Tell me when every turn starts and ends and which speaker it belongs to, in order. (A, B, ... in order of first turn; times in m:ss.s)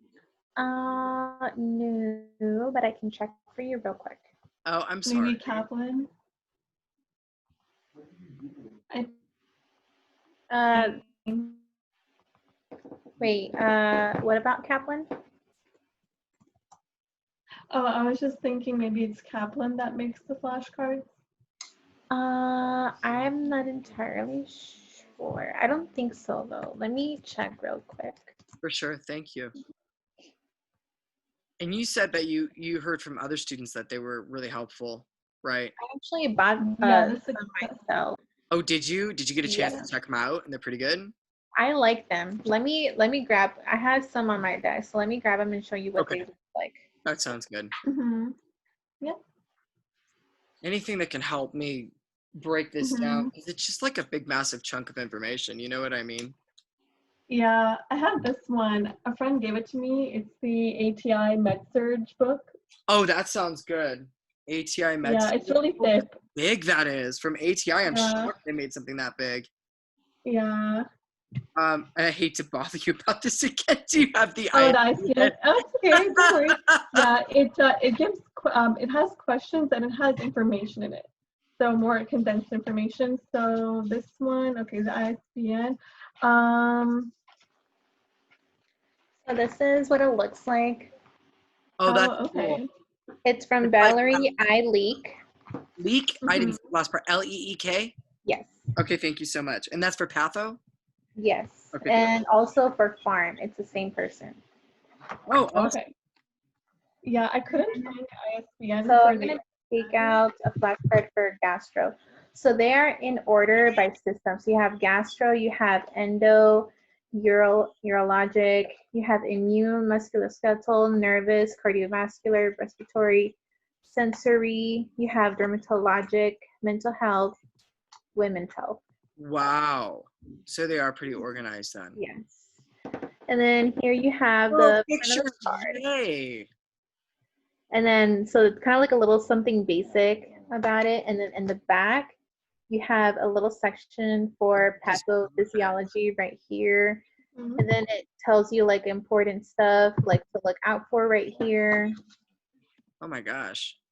0:00.6-0:04.2 A
0:04.6-0:05.6 B
0:05.0-0:06.1 C
0:10.5-0:11.0 A
0:10.7-0:11.6 C
0:13.2-0:15.1 A
0:17.7-0:21.0 C
0:22.1-0:28.3 A
0:28.6-0:29.5 B
0:31.6-0:35.8 B
0:35.8-0:38.2 A
0:36.8-0:37.8 C
0:38.5-0:41.1 B
0:39.4-0:39.9 A
0:41.6-0:46.9 A
0:46.0-0:46.2 B
0:47.0-0:47.7 B
0:47.9-0:48.3 C
0:50.6-0:56.4 B
0:52.8-0:53.3 C
0:57.3-1:02.5 C
1:02.9-1:09.5 B
1:05.0-1:06.2 C
1:07.9-1:08.3 C
1:10.2-1:10.8 C
1:11.6-1:15.4 B
1:14.5-1:27.1 C
1:15.9-1:17.1 B
1:29.2-1:30.9 A
1:31.8-1:32.6 B
1:31.8-1:32.7 C
1:33.2-1:35.2 A
1:33.6-1:34.3 B
1:35.8-1:37.9 B
1:36.2-1:36.6 C
1:38.2-1:38.6 A
1:38.8-1:40.6 B
1:41.2-1:44.4 A
1:41.7-1:42.2 B
1:45.3-1:45.8 B
1:45.5-1:45.9 C
1:47.0-1:49.4 C
1:48.8-2:07.4 A
2:08.1-2:08.8 A
2:09.2-2:12.0 B
2:11.9-2:12.5 A
2:13.3-2:15.8 A
2:14.5-2:16.5 B
2:17.7-2:22.1 A
2:22.7-2:27.0 A
2:24.8-2:25.7 B
2:27.4-2:27.6 C
2:27.6-2:31.9 A
2:33.0-2:33.8 B